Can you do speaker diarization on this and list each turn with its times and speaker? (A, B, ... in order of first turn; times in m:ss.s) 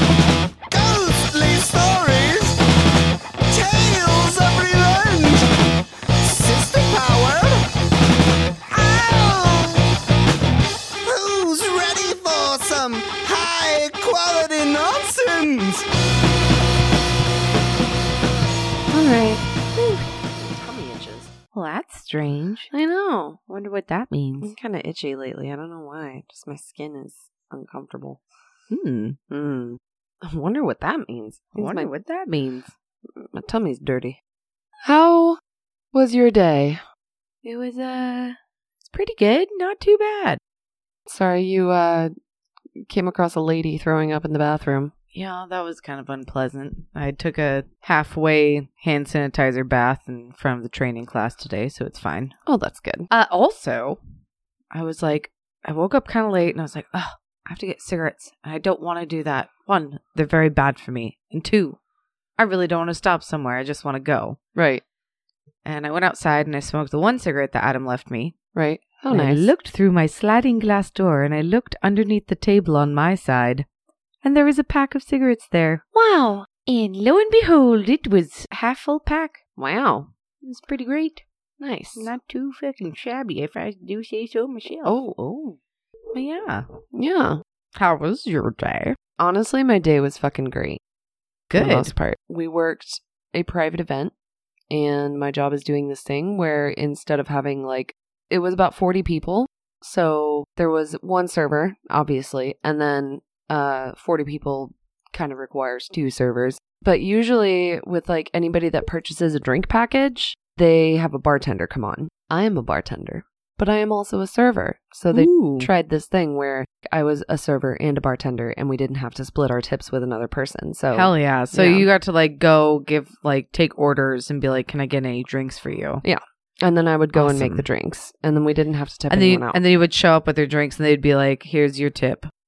0:00.7-0:02.6 A
0:03.5-0:05.5 A
0:06.2-0:07.6 A
0:08.7-0:09.9 A
0:11.0-0:15.8 A
0:18.9-0:21.3 B
0:21.5-0:22.7 C
0:22.7-0:23.4 B
0:23.5-0:24.5 C
0:24.4-0:28.2 B
0:28.7-0:29.2 C
0:29.3-0:31.9 B
0:31.5-0:32.7 C
0:33.2-0:34.2 B
0:34.8-0:35.4 B
0:35.9-0:36.8 B
0:37.4-0:40.4 C
0:41.1-0:42.1 B
0:42.8-0:44.9 B
0:45.1-0:52.3 C
0:52.4-0:53.1 B
0:53.1-0:54.0 C
0:54.7-1:01.8 C
1:02.4-1:04.4 C
1:04.5-1:04.8 B
1:05.6-1:08.3 C
1:08.5-1:09.5 B
1:09.1-1:13.6 C
1:14.2-1:19.4 C
1:19.6-1:20.1 B
1:20.4-1:21.2 C
1:21.6-1:22.1 B
1:21.9-1:25.0 C
1:24.8-1:25.6 B
1:26.1-1:26.6 C
1:26.9-1:27.4 B
1:27.7-1:29.0 C
1:29.2-1:30.8 B
1:31.5-1:31.9 C
1:31.5-1:34.1 B
1:34.7-1:39.5 B
1:39.8-1:40.4 C
1:40.3-2:01.9 B
1:55.1-1:55.7 C
2:00.9-2:06.0 C
2:06.0-2:09.6 B
2:07.1-2:07.6 C
2:09.1-2:12.3 C